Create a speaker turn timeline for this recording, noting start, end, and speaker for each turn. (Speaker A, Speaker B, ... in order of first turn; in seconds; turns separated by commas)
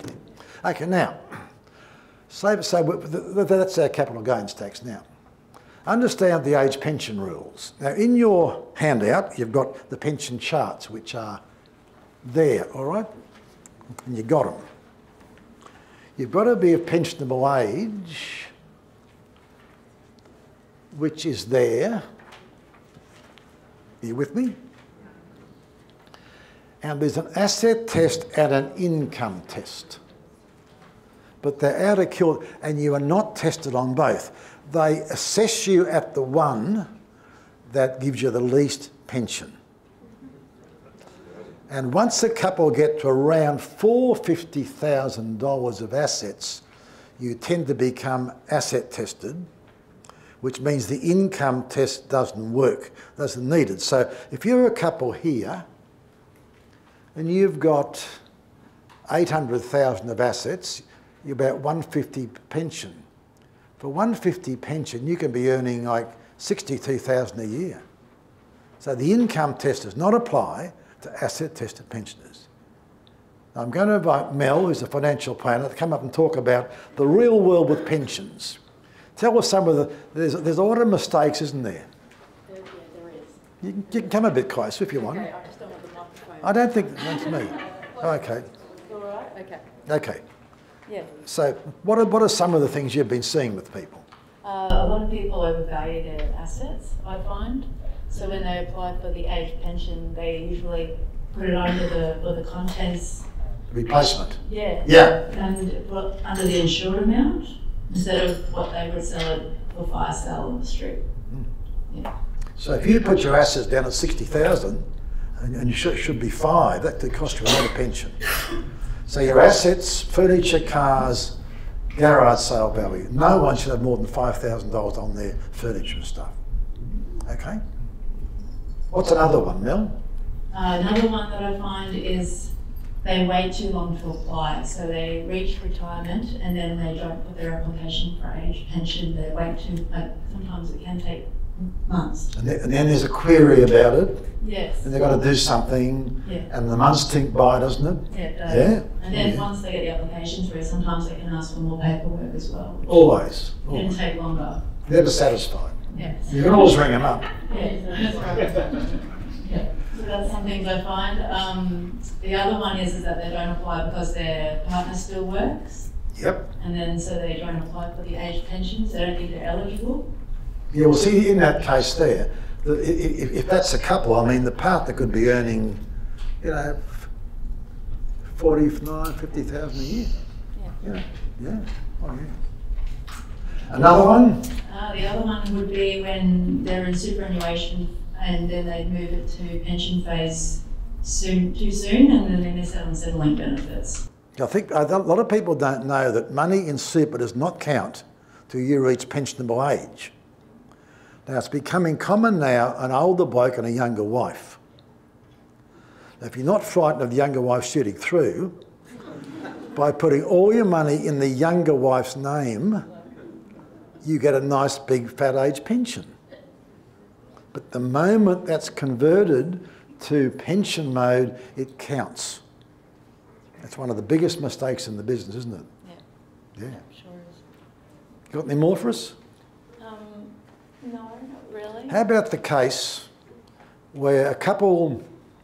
Speaker A: 0.6-1.4, Speaker A: 2.3-5.0, Speaker A: 5.8-11.4, Speaker A: 12.2-13.1, Speaker A: 14.0-14.6, Speaker A: 16.2-18.5, Speaker A: 20.9-22.0, Speaker A: 24.0-24.6, Speaker A: 26.8-30.0, Speaker A: 31.4-36.9, Speaker A: 37.7-39.5, Speaker A: 41.7-46.6, Speaker A: 47.2-49.5, Speaker A: 50.4-55.6, Speaker A: 57.1-58.2, Speaker A: 59.1-63.0, Speaker A: 63.8-67.8, Speaker A: 68.8-72.5, Speaker A: 73.5-78.6, Speaker A: 79.2-81.9, Speaker B: 82.5-83.4, Speaker A: 83.6-85.3, Speaker B: 84.9-89.6, Speaker A: 86.4-88.5, Speaker C: 88.9-89.3, Speaker A: 89.8-90.2, Speaker C: 90.8-91.1, Speaker A: 91.2-94.0, Speaker C: 94.4-103.2, Speaker A: 103.7-105.2, Speaker C: 104.4-111.0, Speaker A: 112.6-114.9, Speaker A: 115.4-118.2, Speaker A: 119.1-121.3, Speaker A: 121.9-126.3, Speaker A: 127.2-127.6, Speaker A: 128.9-129.9, Speaker C: 130.5-142.3, Speaker A: 142.3-144.3, Speaker C: 144.4-144.9, Speaker A: 144.8-149.4, Speaker C: 146.2-146.5, Speaker C: 148.1-154.6, Speaker A: 152.8-153.9, Speaker A: 154.8-157.3, Speaker C: 155.9-156.7, Speaker C: 157.4-165.9, Speaker A: 166.2-166.5, Speaker C: 166.6-170.1, Speaker A: 170.7-175.8, Speaker A: 176.4-177.1, Speaker A: 178.3-180.1, Speaker A: 180.8-182.3, Speaker A: 183.7-184.5, Speaker C: 184.6-194.0, Speaker A: 194.3-200.1, Speaker A: 201.2-204.6, Speaker A: 206.2-208.6, Speaker A: 209.7-212.8, Speaker A: 214.0-216.1, Speaker A: 217.5-222.4, Speaker A: 223.6-225.7, Speaker C: 226.9-227.3, Speaker A: 228.3-229.2, Speaker C: 229.8-231.9, Speaker A: 231.9-233.1, Speaker A: 233.9-235.0